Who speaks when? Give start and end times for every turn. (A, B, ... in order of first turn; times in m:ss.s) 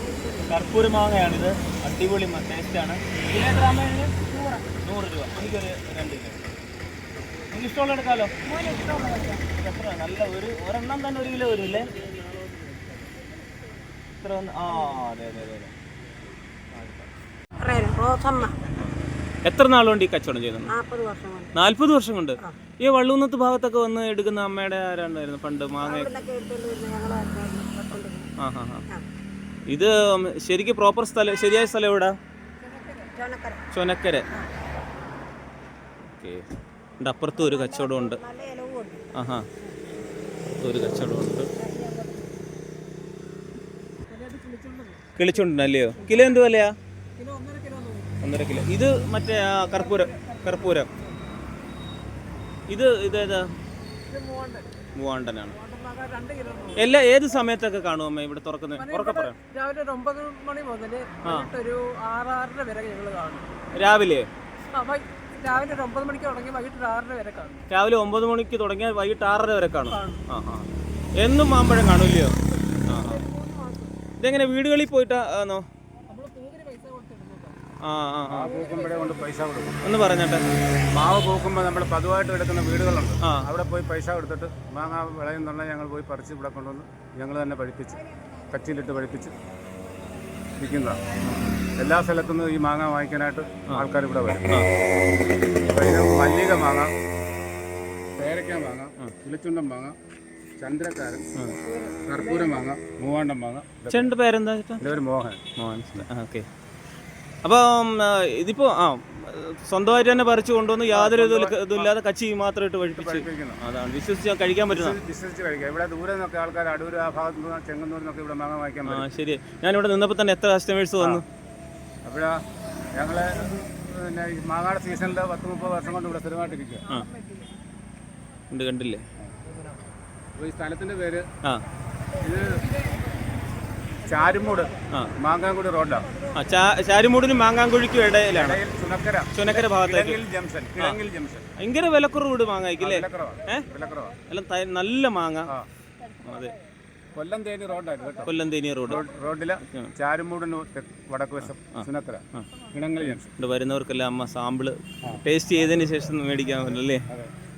0:00.5-0:06.5 A
0:07.5-0:08.3 A
0:08.4-0:09.4 B
0:09.5-0:11.9 A
0:12.0-0:12.8 B
0:14.2-0:15.7 A
0:16.7-0:17.0 A
0:17.6-0:18.6 C
0:19.4-0:20.8 A
0:20.7-0:21.5 C
0:21.5-0:26.1 A
0:25.8-0:28.3 C
0:28.4-0:28.8 A
0:29.7-0:32.1 A
0:33.0-0:33.6 C
0:33.7-0:34.2 A
0:36.1-0:36.4 A
0:37.0-0:38.2 A
0:37.3-0:39.0 C
0:39.1-0:39.5 A
0:40.5-0:41.5 A
0:41.6-0:42.4 C
0:44.1-0:45.1 B
0:45.2-0:46.7 A
0:45.9-0:46.4 B
0:47.2-0:48.1 B
0:48.2-0:50.9 A
0:49.7-0:50.8 B
0:52.7-0:53.5 A
0:54.1-0:54.7 B
0:54.9-0:55.6 A
0:55.5-0:56.8 B
0:56.7-0:59.4 A
0:58.8-1:03.5 B
1:01.2-1:01.5 A
1:03.7-1:04.3 A
1:04.7-1:07.6 B
1:07.7-1:10.7 A
1:09.9-1:10.2 B
1:11.2-1:13.2 A
1:12.8-1:13.9 B
1:14.2-1:15.6 A
1:16.1-1:17.6 B
1:17.8-1:18.5 A
1:18.3-1:19.8 D
1:18.4-1:19.3 B
1:19.8-1:20.4 A
1:20.9-1:29.3 D
1:30.6-1:31.0 D
1:31.2-1:31.6 A
1:31.8-1:34.5 D
1:35.7-1:36.9 D
1:38.2-1:39.9 D
1:40.6-1:41.3 D
1:41.6-1:42.6 B
1:42.1-1:44.1 D
1:43.9-1:44.9 A
1:44.8-1:45.4 D
1:45.6-1:46.4 A
1:47.4-1:55.0 A
1:50.9-1:51.9 D
1:53.0-1:53.6 D
1:54.7-1:59.0 D
1:58.8-2:01.2 A
2:02.0-2:02.4 D
2:02.9-2:06.9 D
2:06.8-2:07.5 B
2:08.5-2:09.0 A
2:10.4-2:11.2 D
2:12.2-2:12.6 D
2:12.6-2:13.0 B
2:14.0-2:16.1 D
2:16.3-2:18.6 A
2:18.4-2:21.4 D
2:19.3-2:20.2 A
2:21.6-2:23.7 A
2:22.8-2:24.1 D
2:24.3-2:25.5 A
2:26.2-2:26.6 A
2:27.1-2:28.3 D
2:28.2-2:29.0 A
2:28.8-2:33.3 D
2:29.6-2:29.9 A
2:31.4-2:32.4 A
2:33.0-2:37.0 A